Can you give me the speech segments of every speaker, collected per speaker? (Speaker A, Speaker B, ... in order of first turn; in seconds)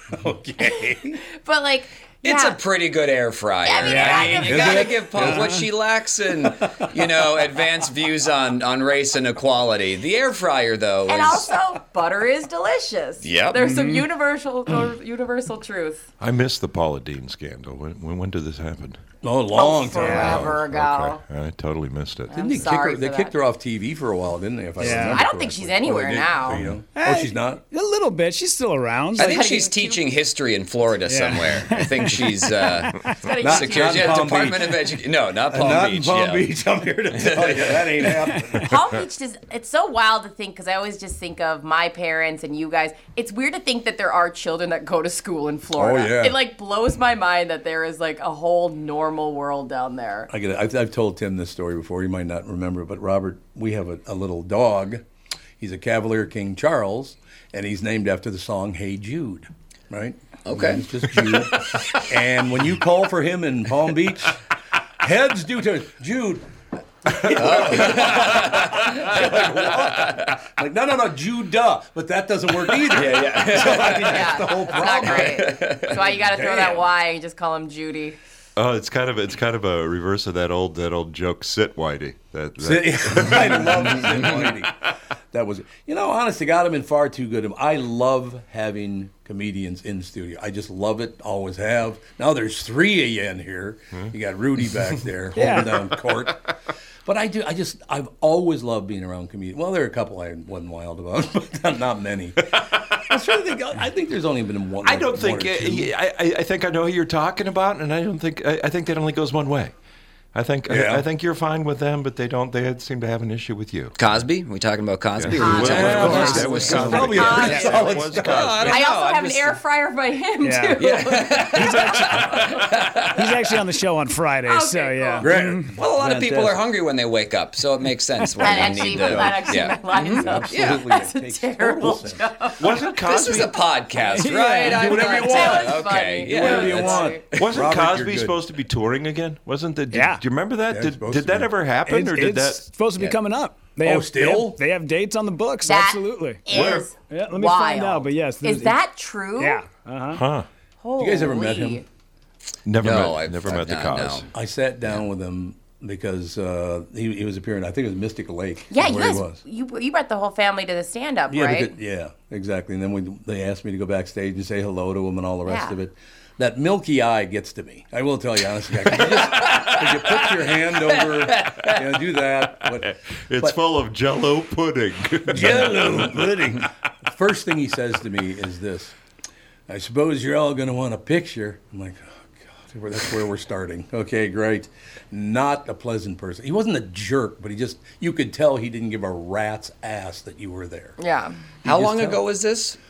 Speaker A: 0.1-1.2, 4.5-5.4, 19.2-20.6, 22.3-27.6, 33.4-38.7, 45.8-46.4, 50.3-55.0, 55.6-64.4, 65.0-66.5, 67.0-76.8, 82.6-84.7, 85.3-96.5, 97.0-105.9, 110.7-111.0, 115.5-118.7, 125.2-126.6, 128.6-132.2, 134.7-138.4, 140.7-141.5, 143.8-144.6, 151.0-151.8, 154.3-159.4, 161.3-173.6, 175.3-178.9, 179.7-191.0, 191.6-192.2
Speaker B: 0.7-2.6, 3.6-4.9, 11.1-16.0, 19.5-21.2, 22.3-23.3, 25.1-26.6, 29.2-30.0, 33.2-34.3, 38.6-50.3, 73.9-78.2, 115.4-118.0, 118.6-121.8, 124.5-125.3, 128.4-132.7, 134.9-137.2, 145.6-149.6, 150.8-151.8, 158.7-161.7, 165.4-165.7, 191.0-191.4
Speaker C: 2.2-11.5, 13.2-13.6, 29.1-36.5, 37.1-37.8, 60.5-60.8, 67.3-70.3, 72.9-74.3, 75.0-76.0, 114.0-119.6, 120.8-123.5, 125.7-130.9, 133.0-137.6, 152.8-154.3, 169.2-170.2, 170.9-171.8, 191.6-192.8
Speaker D: 3.8-4.6, 5.2-5.6, 13.6-14.0, 20.0-20.4, 24.8-25.2, 26.9-29.4, 31.1-33.1, 95.3-95.8, 120.4-125.7, 134.1-135.1, 139.9-140.2, 141.9-148.8, 149.4-150.2
Speaker E: 16.2-19.0, 20.1-22.5, 78.5-83.9, 104.8-109.7, 110.3-114.0, 115.2-118.8, 132.6-133.6, 137.4-142.7, 146.5-146.9, 150.1-150.5, 152.7-154.3, 173.3-176.2